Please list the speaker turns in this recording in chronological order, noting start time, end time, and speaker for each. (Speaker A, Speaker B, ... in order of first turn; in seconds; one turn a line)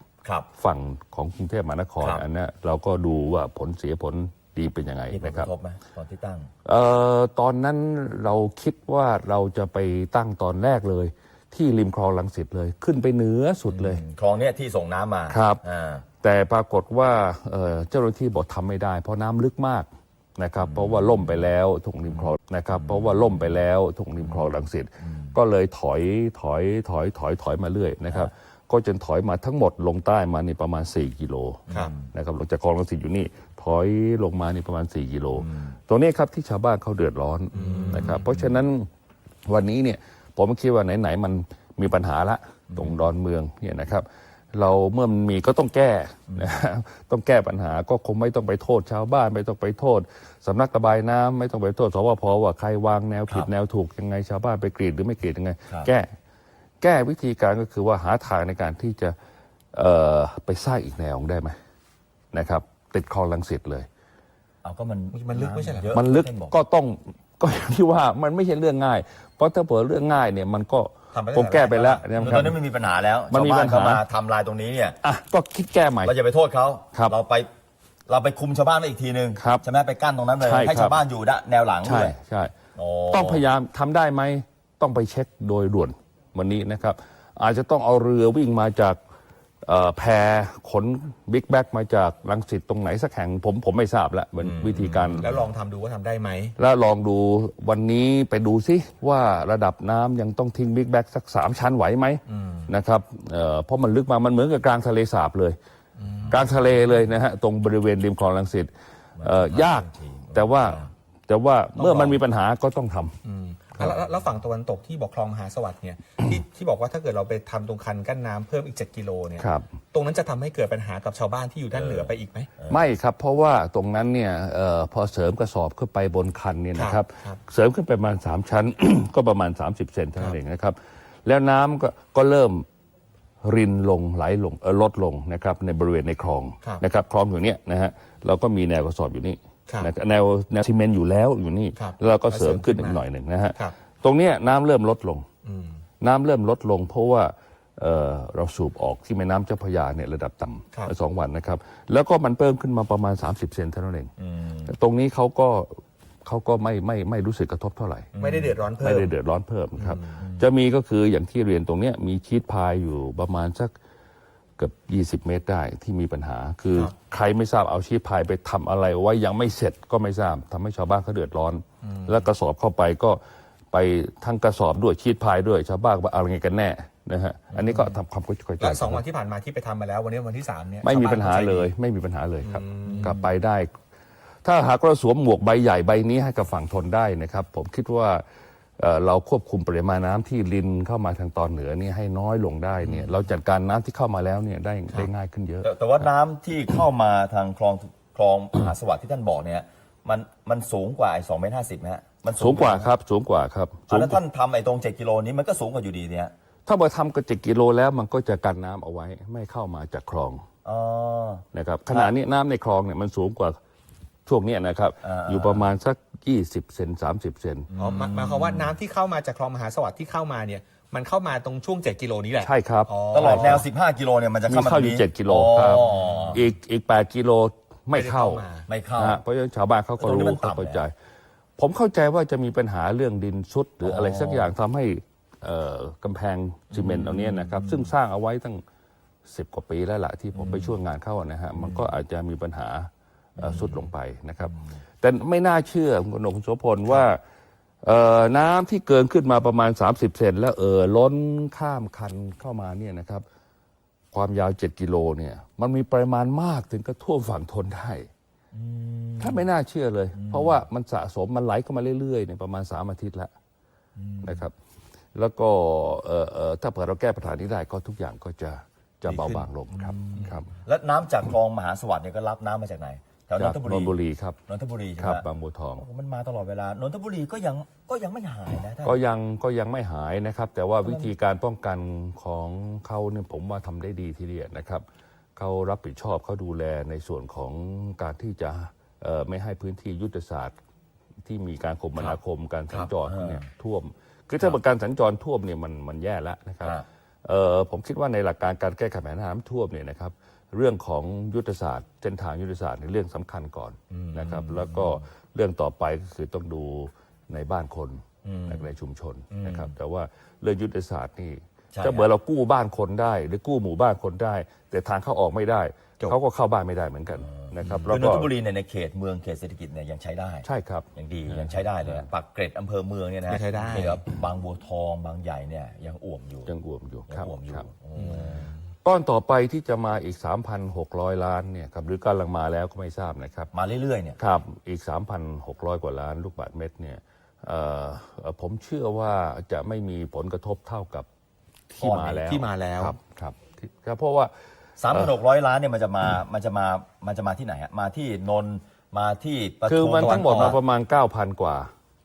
Speaker A: 0.2-0.5
Speaker B: 0.6-5.5
Speaker A: 2.0-2.2
Speaker A: 5.1-6.5
Speaker B: 6.6-14.0
Speaker A: 13.7-16.1
Speaker B: 15.3-15.6
Speaker B: 16.2-38.9
Speaker A: 20.6-21.5
Speaker A: 22.7-23.6
Speaker A: 24.2-25.4
Speaker A: 31.7-32.1
Speaker A: 35.4-35.8
Speaker C: 37.6-38.2
Speaker A: 37.6-38.6
Speaker B: 39.5-56.1
Speaker A: 42.7-43.1
Speaker B: 56.8-59.1
Speaker B: 59.7-61.5
Speaker B: 62.3-63.9
Speaker A: 64.6-66.6
Speaker C: 65.1-65.9
Speaker B: 65.9-72.6
Speaker C: 71.1-72.1
Speaker A: 72.2-75.0
Speaker B: 73.3-74.0
Speaker B: 75.0-76.1
Speaker A: 76.0-77.5
Speaker A: 78.1-82.2
Speaker B: 79.4-79.6
Speaker B: 80.4-81.0
Speaker B: 81.8-82.5
Speaker A: 82.8-83.4
Speaker B: 83.1-89.0
Speaker B: 89.6-95.3
Speaker A: 94.4-95.4
Speaker C: 95.2-96.6
Speaker B: 96.6-105.6
Speaker C: 102.3-102.7
Speaker C: 106.0-106.4
Speaker B: 106.3-113.1
Speaker A: 109.2-110.9
Speaker C: 111.8-112.2
Speaker C: 113.2-122.5
Speaker B: 119.4-119.7
Speaker A: 121.7-122.8
Speaker B: 122.7-132.6
Speaker C: 126.8-127.4
Speaker B: 133.4-145.2
Speaker C: 141.8-143.0
Speaker C: 145.4-145.8
Speaker B: 146.0-154.1
Speaker A: 154.2-154.7
Speaker B: 154.7-158.1
Speaker A: 158.1-158.6
Speaker C: 158.2-159.1
Speaker B: 158.8-163.7
Speaker A: 160.2-160.4
Speaker B: 164.6-173.2
Speaker C: 171.8-172.2
Speaker B: 173.7-179.0
Speaker C: 178.6-181.7
Speaker B: 180.8-183.7
Speaker C: 182.4-183.1
Speaker A: 182.8-183.3
Speaker B: 184.4-188.2
Speaker B: 188.8-196.0
Speaker A: 195.6-202.9
Speaker B: 202.3-204.2
Speaker A: 203.9-206.3
Speaker B: 206.7-210.4
Speaker A: 210.6-212.1
Speaker B: 211.5-213.6
Speaker B: 214.2-217.7
Speaker A: 215.0-215.7
Speaker A: 217.7-218.7
Speaker C: 217.8-223.6
Speaker B: 222.4-223.6
Speaker A: 223.1-226.4
Speaker B: 224.5-228.4
Speaker C: 226.0-226.3
Speaker C: 227.9-228.7
Speaker A: 228.7-229.2
Speaker B: 229.0-230.9
Speaker A: 230.0-230.9
Speaker B: 231.6-238.6
Speaker A: 233.8-234.5
Speaker A: 236.7-237.9
Speaker B: 239.3-247.2
Speaker A: 240.3-240.8
Speaker A: 241.6-241.9
Speaker A: 243.4-243.9
Speaker B: 247.8-253.2
Speaker B: 254.1-258.1
Speaker A: 258.5-259.5
Speaker B: 259.2-263.3
Speaker A: 260.2-260.6
Speaker A: 264.0-264.5
Speaker B: 264.2-264.5
Speaker B: 265.1-270.5
Speaker A: 269.1-274.0
Speaker B: 273.4-274.4
Speaker A: 274.5-279.0
Speaker B: 275.0-275.8
Speaker B: 278.8-284.9
Speaker A: 280.9-281.1
Speaker B: 285.4-290.5
Speaker B: 291.2-318.3
Speaker A: 292.7-293.4
Speaker A: 303.9-305.0
Speaker A: 308.2-308.7
Speaker A: 309.3-309.7
Speaker A: 311.7-312.1
Speaker A: 317.9-326.5
Speaker B: 320.4-322.1
Speaker C: 323.3-324.0
Speaker B: 326.5-327.6
Speaker A: 327.1-328.5
Speaker B: 328.8-333.5
Speaker A: 333.5-334.2
Speaker B: 334.2-341.1
Speaker B: 341.7-344.3
Speaker C: 341.9-342.9
Speaker A: 344.8-350.6
Speaker B: 344.9-345.1
Speaker B: 349.7-351.7
Speaker C: 350.0-350.5